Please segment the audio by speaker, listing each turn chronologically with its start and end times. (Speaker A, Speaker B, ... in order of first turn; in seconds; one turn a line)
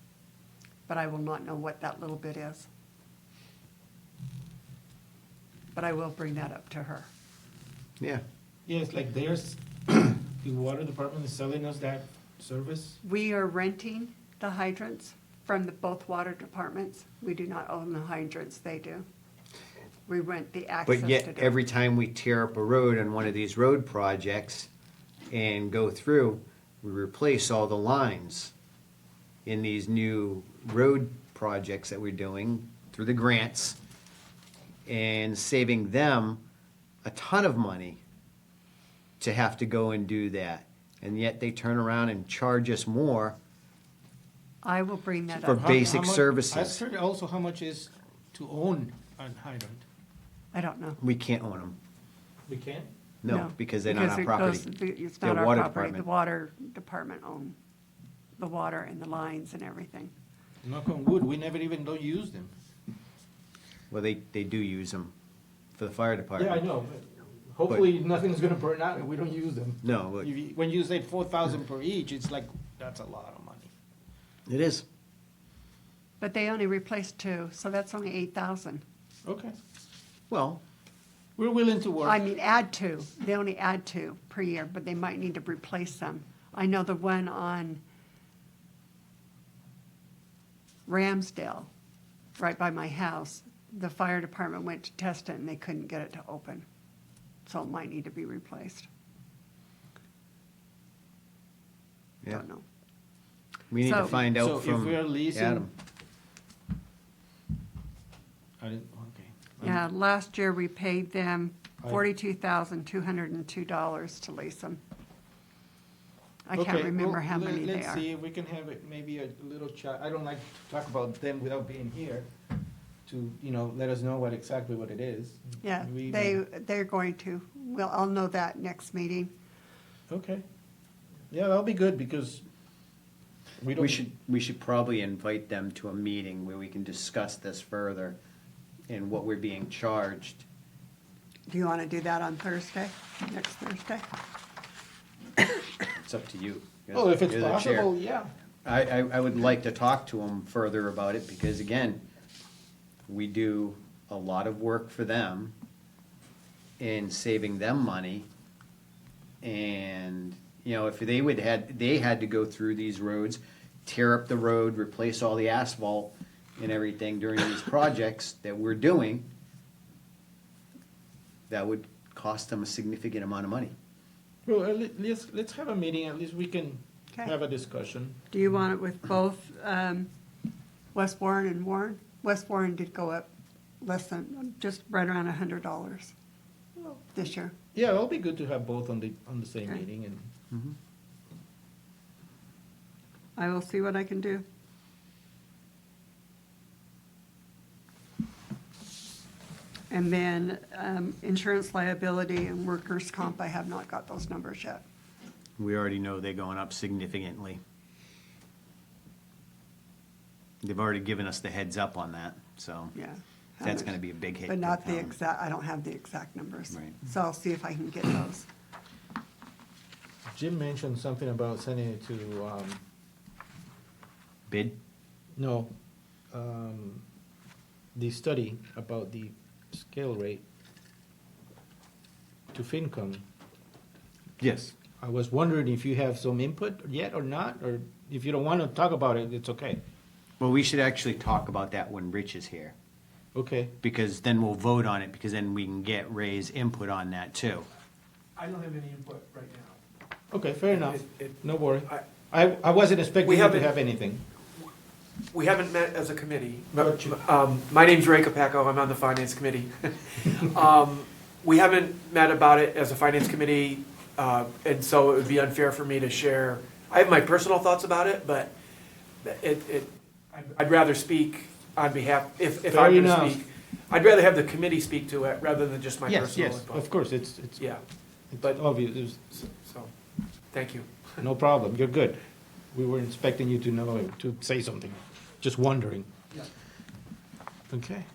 Speaker A: 0.9-2.7
Speaker A: 5.7-7.1
Speaker B: 8.7-13.0
Speaker A: 13.0-19.0
Speaker A: 20.1-21.5
Speaker C: 20.9-24.7
Speaker C: 25.3-28.5
Speaker C: 29.4-33.8
Speaker C: 34.9-36.4
Speaker C: 37.0-38.0
Speaker C: 39.2-43.4
Speaker A: 44.6-45.9
Speaker C: 45.4-46.8
Speaker B: 45.5-49.8
Speaker A: 50.5-51.0
Speaker C: 51.0-51.8
Speaker B: 52.5-52.9
Speaker C: 53.2-54.6
Speaker A: 53.3-57.5
Speaker C: 55.2-56.0
Speaker A: 58.4-60.1
Speaker B: 60.6-62.5
Speaker C: 63.9-65.1
Speaker C: 65.8-66.6
Speaker B: 66.4-73.7
Speaker C: 69.8-70.3
Speaker C: 74.5-74.8
Speaker A: 76.2-78.8
Speaker B: 79.2-79.5
Speaker C: 80.3-80.6
Speaker B: 81.4-82.2
Speaker A: 82.0-87.8
Speaker A: 90.9-91.7
Speaker A: 92.4-96.7
Speaker A: 97.5-98.9
Speaker A: 102.3-102.6
Speaker C: 103.7-105.7
Speaker A: 103.8-104.1
Speaker B: 104.1-105.7
Speaker B: 108.6-109.8
Speaker A: 109.6-114.8
Speaker A: 116.5-118.0
Speaker B: 116.5-122.3
Speaker B: 123.0-126.4
Speaker A: 125.6-129.3
Speaker B: 130.1-130.4
Speaker B: 131.3-132.4
Speaker B: 133.6-134.0
Speaker C: 133.8-138.2
Speaker C: 138.9-140.4
Speaker A: 141.5-144.1
Speaker C: 145.9-147.9
Speaker B: 146.9-148.3
Speaker C: 148.6-152.0
Speaker C: 153.1-155.5
Speaker C: 156.8-158.3
Speaker C: 159.4-169.3
Speaker C: 171.5-173.7
Speaker B: 174.4-178.2
Speaker A: 178.3-180.1
Speaker A: 180.9-183.3
Speaker A: 183.8-186.1
Speaker B: 186.8-187.0
Speaker A: 187.1-187.5
Speaker B: 187.7-190.3
Speaker A: 193.3-194.4
Speaker A: 199.9-204.8
Speaker C: 205.6-207.6
Speaker C: 210.6-212.9
Speaker A: 212.9-218.5
Speaker C: 213.6-215.1
Speaker C: 216.7-217.0
Speaker B: 220.3-222.8
Speaker C: 224.5-224.7
Speaker B: 225.3-225.7
Speaker B: 226.3-227.0
Speaker B: 227.9-230.4
Speaker B: 232.5-233.2
Speaker C: 234.4-234.7
Speaker B: 234.8-239.8
Speaker C: 240.4-242.7
Speaker B: 243.3-243.7
Speaker C: 243.8-247.7
Speaker D: 248.3-249.8
Speaker B: 250.3-254.2
Speaker D: 250.7-252.0
Speaker D: 253.2-253.7
Speaker D: 255.3-268.5
Speaker B: 256.8-257.2
Speaker D: 269.2-276.8
Speaker B: 272.7-273.4
Speaker B: 276.1-277.7
Speaker B: 278.3-279.3
Speaker D: 279.3-279.9
Speaker D: 280.5-281.2
Speaker B: 281.2-282.2
Speaker B: 282.7-286.1
Speaker B: 287.7-288.1